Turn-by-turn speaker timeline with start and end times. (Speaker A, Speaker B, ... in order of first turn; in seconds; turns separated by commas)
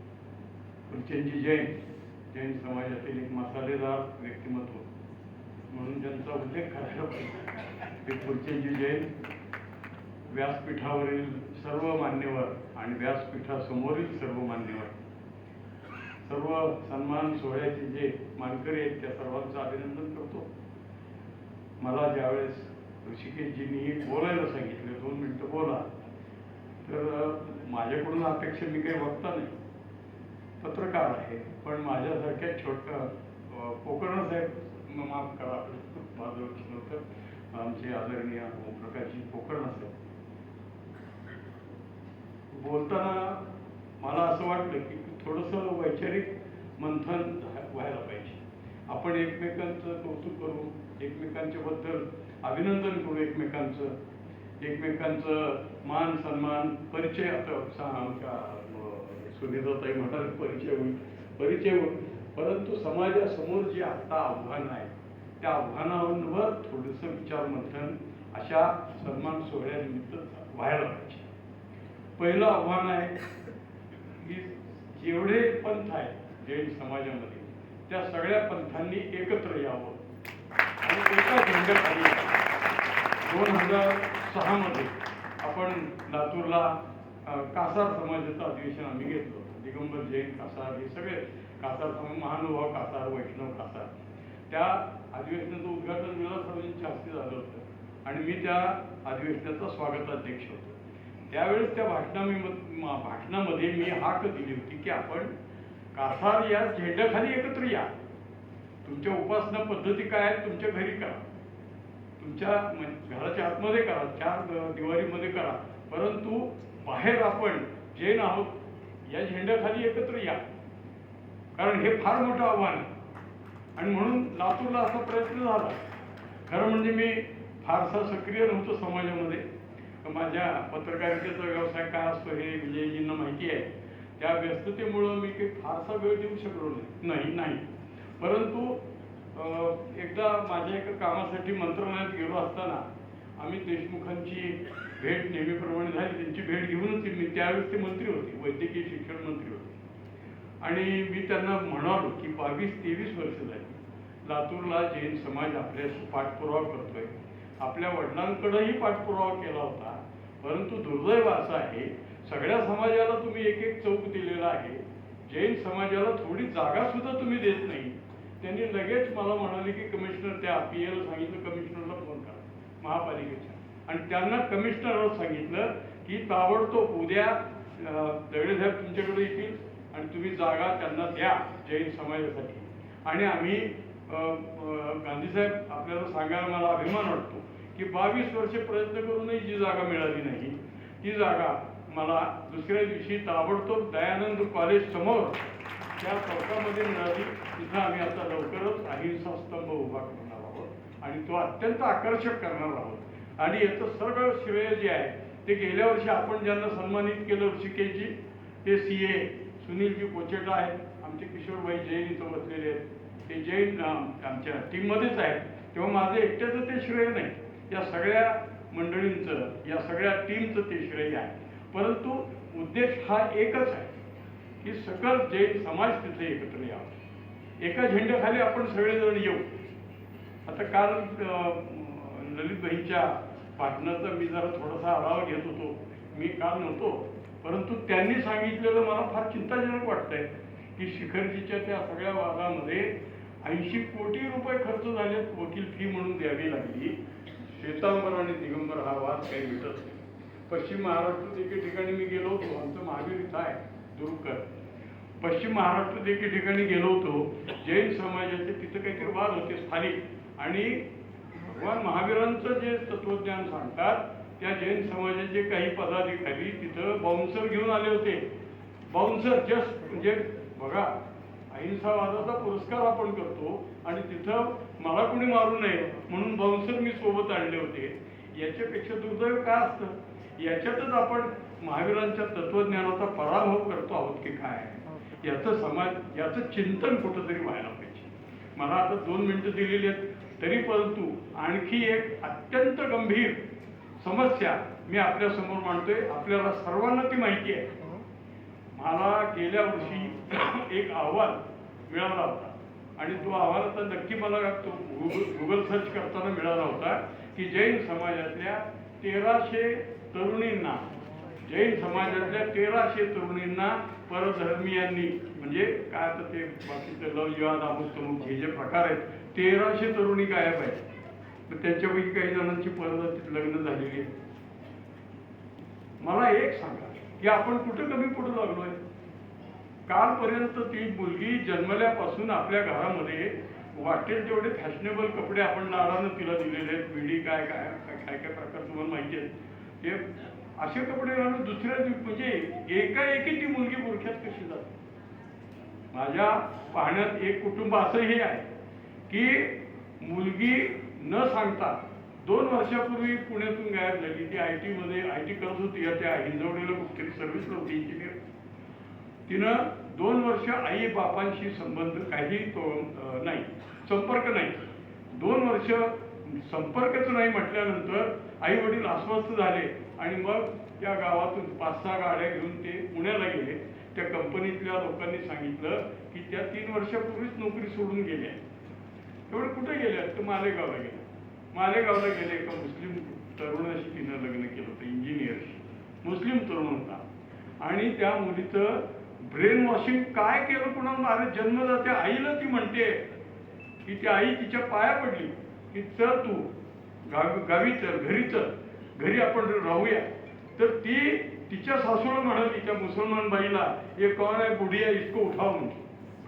Speaker A: 0.9-1.7, Speaker A: 2.3-4.8, Speaker A: 5.7-9.1, Speaker A: 10.3-15.0, Speaker A: 16.2-20.5, Speaker A: 21.8-26.1, Speaker A: 26.8-29.6, Speaker A: 30.6-39.9, Speaker A: 42.5-43.5, Speaker A: 44.0-54.0, Speaker A: 54.6-71.3, Speaker A: 72.2-73.2, Speaker A: 74.2-80.0, Speaker A: 80.8-82.4, Speaker A: 83.2-93.9, Speaker A: 94.5-100.8, Speaker A: 101.3-105.3, Speaker A: 105.9-107.9, Speaker A: 108.8-111.2, Speaker A: 112.2-120.4, Speaker A: 121.5-122.9, Speaker A: 123.8-125.8, Speaker A: 126.5-129.4, Speaker A: 130.0-137.6, Speaker A: 138.2-138.8, Speaker A: 139.3-142.9, Speaker A: 143.4-149.7, Speaker A: 150.6-195.4, Speaker A: 196.0-208.1, Speaker A: 208.6-223.9, Speaker A: 224.6-227.0, Speaker A: 227.6-229.5, Speaker A: 230.4-247.0, Speaker A: 247.5-254.5, Speaker A: 255.2-260.9, Speaker A: 261.4-268.2, Speaker A: 268.9-270.9, Speaker A: 271.5-293.4, Speaker A: 294.0-297.8, Speaker A: 298.7-320.8, Speaker A: 321.5-324.1, Speaker A: 326.0-328.8, Speaker A: 329.9-344.8, Speaker A: 345.9-348.5, Speaker A: 349.1-358.1, Speaker A: 359.3-378.4, Speaker A: 379.3-387.1, Speaker A: 387.6-393.0, Speaker A: 393.8-396.5, Speaker A: 397.1-405.8